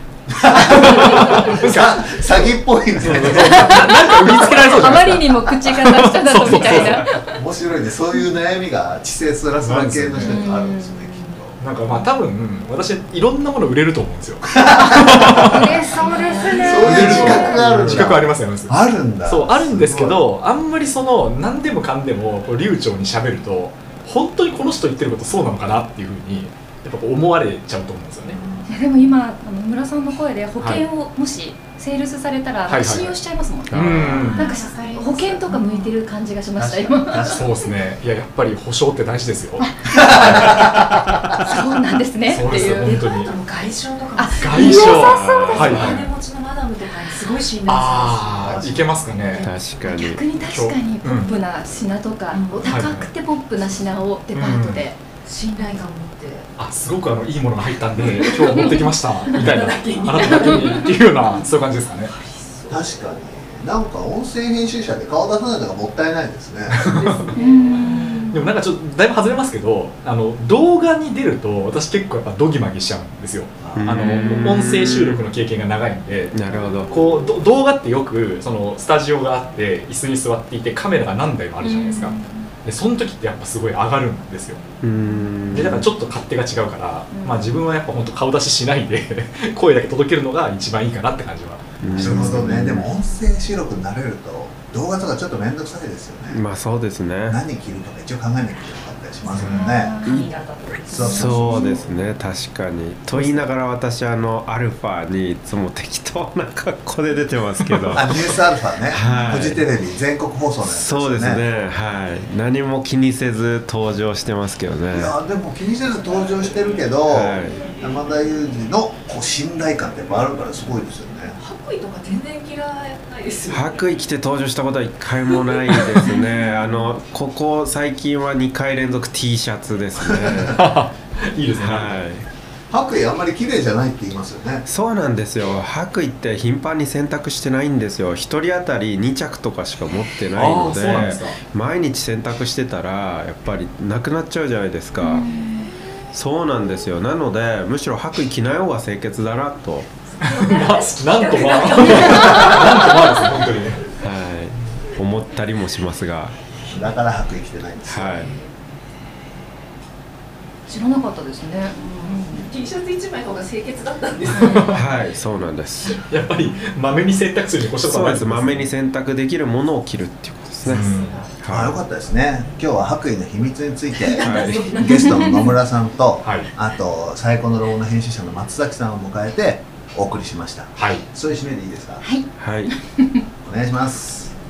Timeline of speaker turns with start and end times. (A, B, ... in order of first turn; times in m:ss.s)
0:00.3-0:05.5 A
0:00.5-0:02.1 B
0:03.0-0:07.1 B
0:03.2-0:07.4 C
0:06.5-0:11.6 A
0:09.6-0:10.4 B
0:10.2-0:11.2 C
0:11.6-0:15.7 B
0:14.6-0:15.5 A
0:14.8-0:17.6 C
0:16.0-0:17.4 D
0:16.6-0:20.2 A
0:16.8-0:28.4 B
0:28.6-0:37.5 C
0:30.6-0:30.8 B
0:32.7-0:33.2 B
0:33.7-0:34.1 E
0:33.7-0:34.4 B
0:34.1-0:36.0 D
0:36.6-0:40.8 B
0:39.6-0:43.0 C
0:42.3-0:43.3 B
0:42.4-0:49.5 D
0:44.2-0:45.9 C
0:44.4-0:46.1 B
0:45.0-0:45.7 E
0:47.6-0:49.5 B
0:48.4-0:48.8 A
0:49.4-0:50.3 E
0:49.8-0:55.0 C
0:50.4-0:51.3 B
0:52.3-0:52.8 D
0:52.6-0:53.1 B
0:54.3-0:54.9 B
0:55.2-0:56.5 D
0:56.6-1:02.1 B
0:58.1-1:03.2 D
1:02.7-1:06.9 A
1:06.7-1:07.3 B
1:07.0-1:08.5 D
1:07.3-1:08.4 C
1:08.3-1:16.4 B
1:13.6-1:14.0 A
1:13.7-1:15.3 E
1:16.3-1:17.0 E
1:16.9-1:24.6 B
1:21.6-1:22.5 C
1:24.8-1:25.9 E
1:25.0-1:25.7 C
1:25.5-1:32.3 B
1:27.1-1:27.6 C
1:31.8-1:32.9 E
1:31.9-1:36.4 A
1:36.3-1:37.4 E
1:37.3-1:40.0 A
1:39.4-1:39.6 B
1:39.4-1:41.9 D
1:39.5-1:40.3 C
1:40.0-1:40.3 E
1:40.9-1:41.8 A
1:41.0-1:41.6 C
1:41.1-1:48.4 E
1:47.9-1:51.4 A
1:48.9-1:49.6 E
1:50.6-1:55.1 E
1:54.9-2:01.4 A
1:57.1-1:57.6 E
2:01.3-2:03.9 D
2:03.5-2:10.6 E
2:05.3-2:06.9 D
2:10.0-2:10.4 A
2:10.4-2:12.2 B
2:11.6-2:12.2 E
2:12.7-2:14.6 A
2:14.6-2:25.3 E
2:20.3-2:21.4 B
2:25.0-2:25.7 C
2:26.1-2:29.9 E
2:30.2-2:33.5 D
2:30.2-2:33.9 B
2:33.9-2:36.3 E
2:36.7-2:38.3 A
2:37.8-2:38.3 E
2:40.7-2:42.5 C
2:42.1-2:44.8 D
2:44.4-2:44.8 B
2:44.7-2:46.0 E
2:46.0-2:48.7 B
2:47.8-2:50.9 E
2:50.6-2:51.2 B
2:50.8-2:51.3 D
2:51.4-2:51.7 E
2:51.5-3:02.0 A
2:53.9-2:55.1 D
2:54.2-2:54.8 E
2:55.0-2:55.5 C
2:56.2-2:56.5 B
3:00.8-3:01.0 B
3:02.0-3:03.2 C
3:02.4-3:02.7 E
3:03.4-3:04.3 A